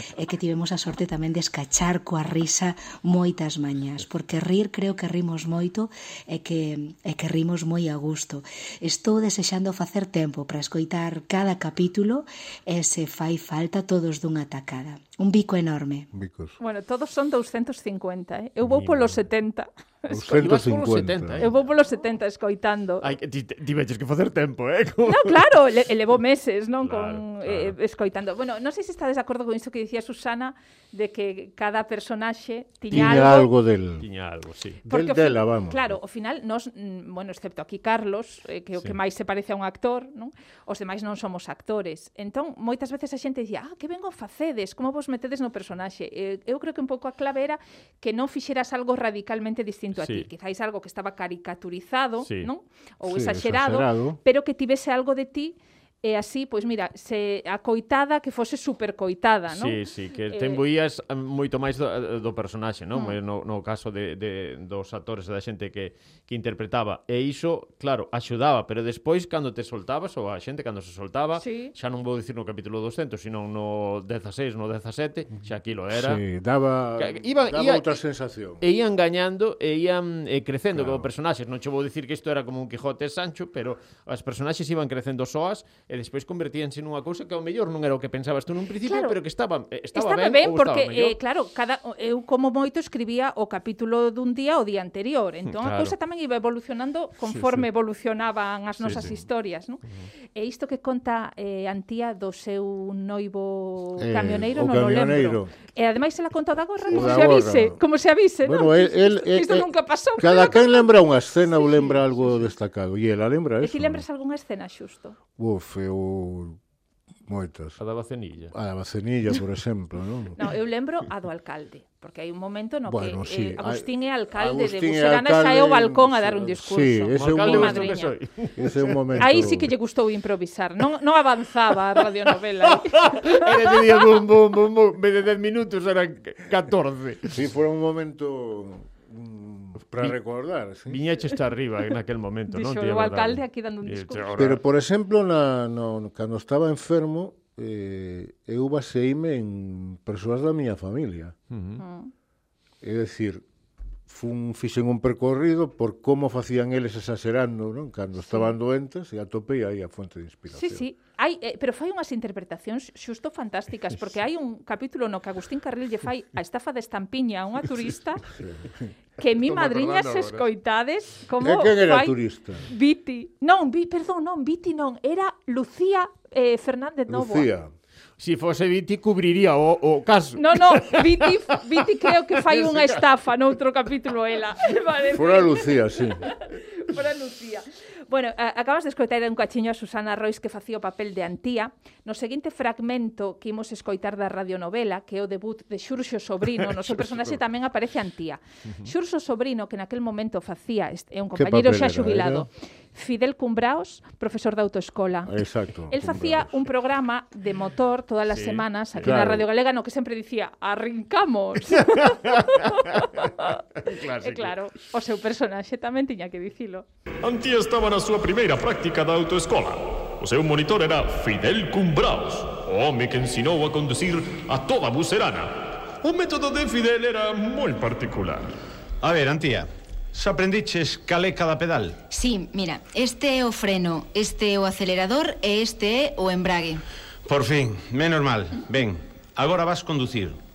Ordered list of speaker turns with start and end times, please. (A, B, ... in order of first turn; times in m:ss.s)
0:00.2-0:16.1 A
0:16.1-0:16.6 B
0:16.6-0:20.4 C
0:18.7-0:19.2 D
0:20.1-0:21.4 B
0:20.4-0:21.7 D
0:21.4-0:23.1 C
0:23.0-0:25.4 D
0:25.1-0:33.5 C
0:26.8-0:27.8 D
0:32.9-0:34.1 B
0:32.9-0:33.2 D
0:34.0-0:34.8 D
0:34.9-0:36.0 B
0:34.9-0:59.8 C
0:50.0-0:50.3 D
0:52.2-0:52.5 D
0:53.0-0:54.2 B
0:59.5-1:16.2 D
1:00.3-1:00.6 C
1:11.4-1:11.7 C
1:15.9-1:18.6 B
1:17.0-1:18.0 D
1:18.6-1:31.2 D
1:20.7-1:21.1 B
1:28.9-1:29.2 C
1:29.9-1:39.8 C
1:35.5-1:36.0 D
1:37.3-1:37.6 B
1:38.8-1:39.1 D
1:40.4-1:50.9 C
1:44.0-1:45.5 B
1:46.9-1:47.8 B
1:48.4-1:54.0 B
1:51.6-1:52.3 C
1:53.6-1:55.2 C
1:55.4-1:56.6 B
1:57.3-1:57.8 B
1:57.8-1:58.5 D
1:58.5-2:00.4 B
2:00.4-2:08.1 C
2:02.9-2:07.9 B
2:07.2-2:09.3 D
2:08.6-2:09.7 B
2:09.2-2:13.4 C
2:12.9-2:17.3 D
2:17.3-2:21.0 B
2:20.9-2:24.6 D
2:22.5-2:24.3 C
2:24.4-2:31.4 B
2:31.5-2:31.8 D
2:31.8-2:32.1 C
2:32.8-2:33.4 B
2:34.1-2:40.9 B
2:38.2-2:38.5 C
2:40.6-2:48.2 C
2:48.4-2:48.7 B
2:49.2-2:52.2 C
2:49.4-2:50.4 D
2:51.4-2:52.6 B
2:52.7-2:57.5 C
2:57.1-2:57.7 B
2:58.2-3:01.3 D
3:00.4-3:05.7 C
3:02.5-3:03.0 D
3:05.1-3:06.2 B
3:06.3-3:25.4 C
3:21.4-3:22.5 B
3:25.3-3:26.6 B
3:25.9-3:33.6 C
3:28.3-3:29.2 D
3:29.0-3:29.4 B
3:31.8-3:33.0 D
3:33.8-3:34.6 D
3:34.2-3:36.9 C
3:37.2-3:48.5 E
3:49.0-3:52.0 F
3:52.1-3:56.8 G
3:57.3-4:00.4 F